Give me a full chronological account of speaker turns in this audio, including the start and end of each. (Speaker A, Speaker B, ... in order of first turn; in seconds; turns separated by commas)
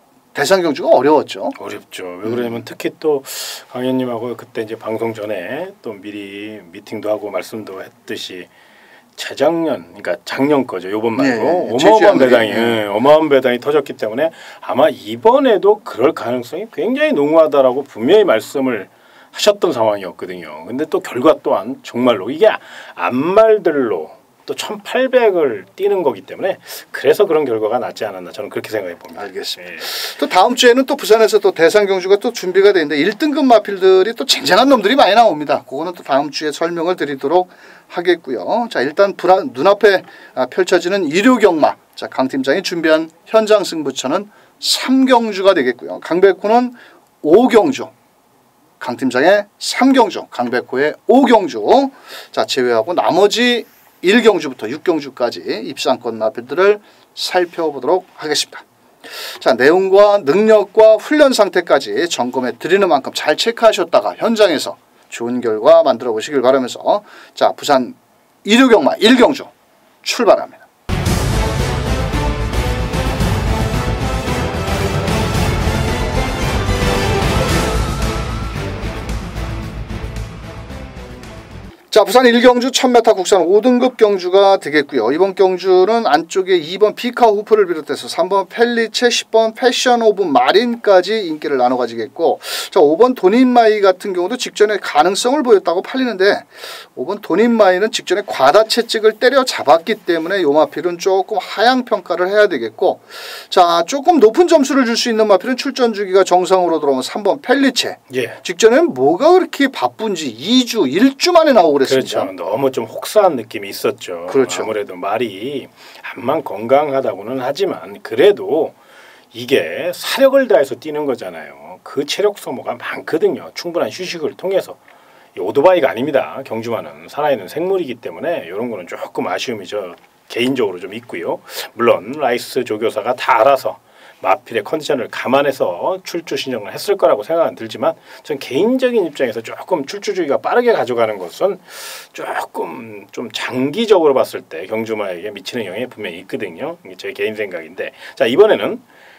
Speaker A: 0.3-1.5, Speaker B: 1.6-8.5, Speaker B: 9.2-29.9, Speaker A: 11.2-12.8, Speaker A: 29.1-47.9, Speaker A: 48.8-58.6, Speaker A: 59.2-69.5, Speaker A: 70.0-70.6, Speaker A: 81.9-112.3, Speaker B: 108.1-108.4, Speaker B: 111.8-118.8, Speaker A: 114.3-114.7, Speaker B: 119.3-124.8, Speaker B: 125.3-148.8